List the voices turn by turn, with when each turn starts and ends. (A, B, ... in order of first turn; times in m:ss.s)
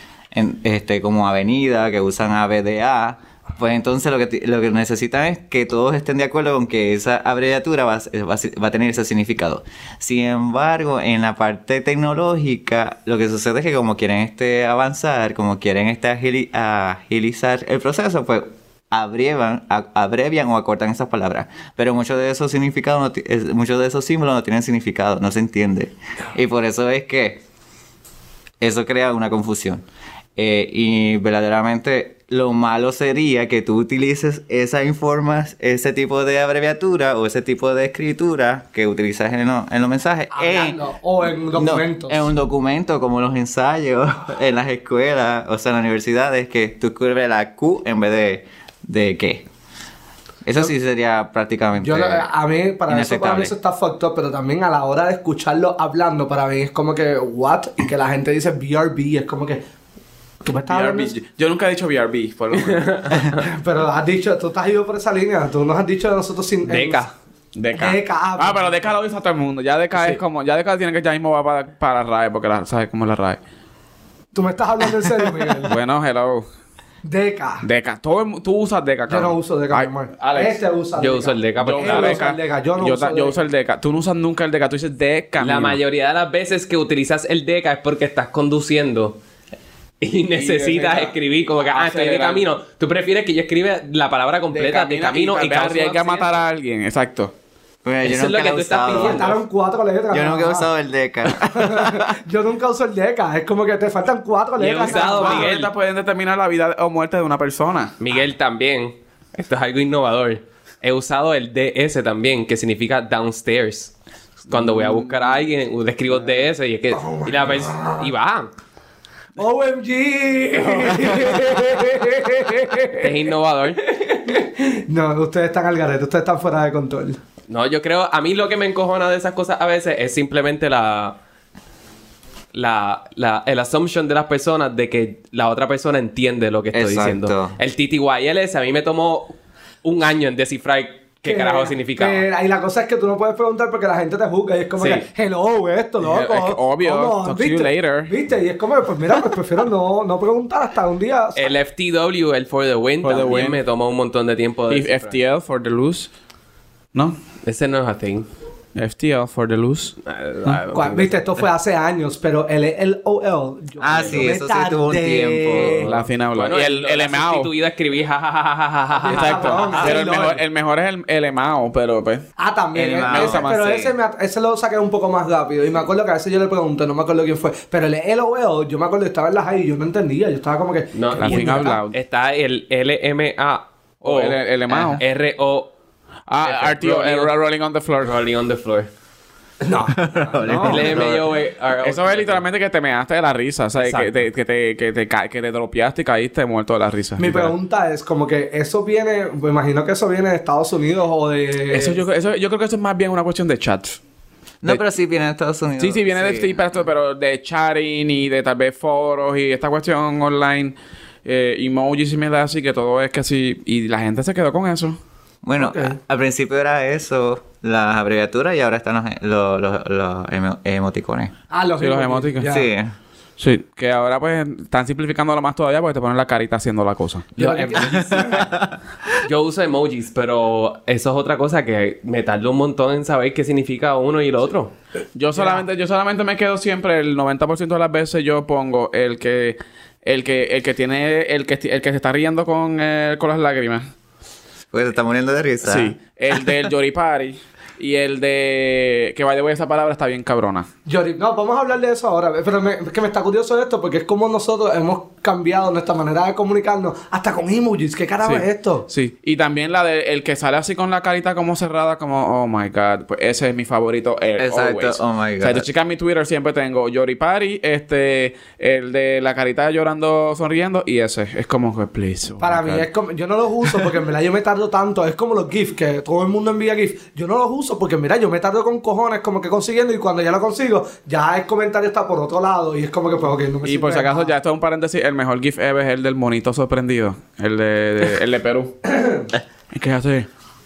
0:00.3-0:27.4 A
0:28.6-0:29.8 A
0:30.4-0:40.8 A
0:40.3-0:42.2 B
0:41.5-0:49.4 A
0:50.4-0:52.3 A
0:51.8-0:59.6 B
0:52.9-0:53.5 A
1:00.4-1:01.1 B
1:00.7-1:03.2 C
1:02.5-1:03.4 D
1:03.3-1:07.0 B
1:06.6-1:07.1 D
1:07.6-1:13.4 C
1:07.8-1:08.7 B
1:14.3-1:15.8 B
1:15.6-1:16.4 C
1:17.0-1:17.6 B
1:17.6-1:20.6 C
1:19.1-1:23.3 B
1:21.0-1:22.2 D
1:21.6-1:25.8 C
1:25.4-1:29.2 D
1:30.0-1:36.3 D
1:30.3-1:32.4 C
1:34.5-1:37.3 C
1:37.8-1:39.3 A
1:38.0-1:39.4 D
1:38.9-1:40.7 B
1:40.1-1:42.2 A
1:41.4-1:45.5 B
1:44.6-1:45.7 D
1:44.8-1:48.0 C
1:48.0-1:53.9 D
1:54.5-1:58.5 D
1:54.5-1:55.3 C
1:56.9-1:58.1 B
1:59.4-2:03.2 B
2:00.7-2:01.0 D
2:03.0-2:03.8 D
2:03.9-2:07.2 B
2:07.5-2:11.2 D
2:12.5-2:22.3 D
2:16.7-2:17.6 A
2:21.2-2:31.4 B
2:24.8-2:25.0 D
2:26.0-2:28.1 C
2:31.3-2:35.2 D
2:33.0-2:33.6 C
2:34.7-2:36.1 C
2:37.4-2:38.3 D
2:38.8-2:40.6 C
2:40.0-2:41.1 D
2:40.7-2:45.9 B
2:43.8-2:46.0 A
2:45.6-2:47.5 C
2:46.3-2:50.0 D
2:49.0-2:50.4 B
2:49.1-2:52.2 C
2:52.4-3:01.8 B
2:52.7-2:53.8 A
2:53.0-2:53.9 C
3:00.9-3:05.7 D
3:01.2-3:01.9 C
3:04.0-3:05.0 C
3:06.3-3:08.2 C
3:06.4-3:07.3 D
3:08.0-3:08.9 D
3:09.6-3:10.8 B
3:09.9-3:11.3 A
3:10.5-3:10.8 C
3:10.6-3:12.4 D
3:11.8-3:17.5 C
3:13.8-3:14.1 D
3:17.2-3:22.0 B
3:21.7-3:24.0 C
3:24.6-3:26.8 A
3:25.8-3:35.0 C
3:35.4-3:41.3 A
3:35.6-3:36.0 B
3:41.5-3:42.7 B
3:41.8-3:42.6 C
3:42.4-3:42.9 A
3:43.4-3:48.2 C
3:47.4-3:48.5 B
3:47.9-3:48.8 A
3:49.2-3:54.7 D
3:55.2-4:03.9 C
3:55.4-3:55.6 B
4:04.7-4:05.9 A
4:05.6-4:10.7 C
4:10.8-4:18.9 B
4:18.2-4:32.8 C
4:24.4-4:25.7 A
4:32.4-4:44.3 B
4:43.6-4:48.8 C
4:48.8-4:49.3 B
4:49.7-4:50.3 C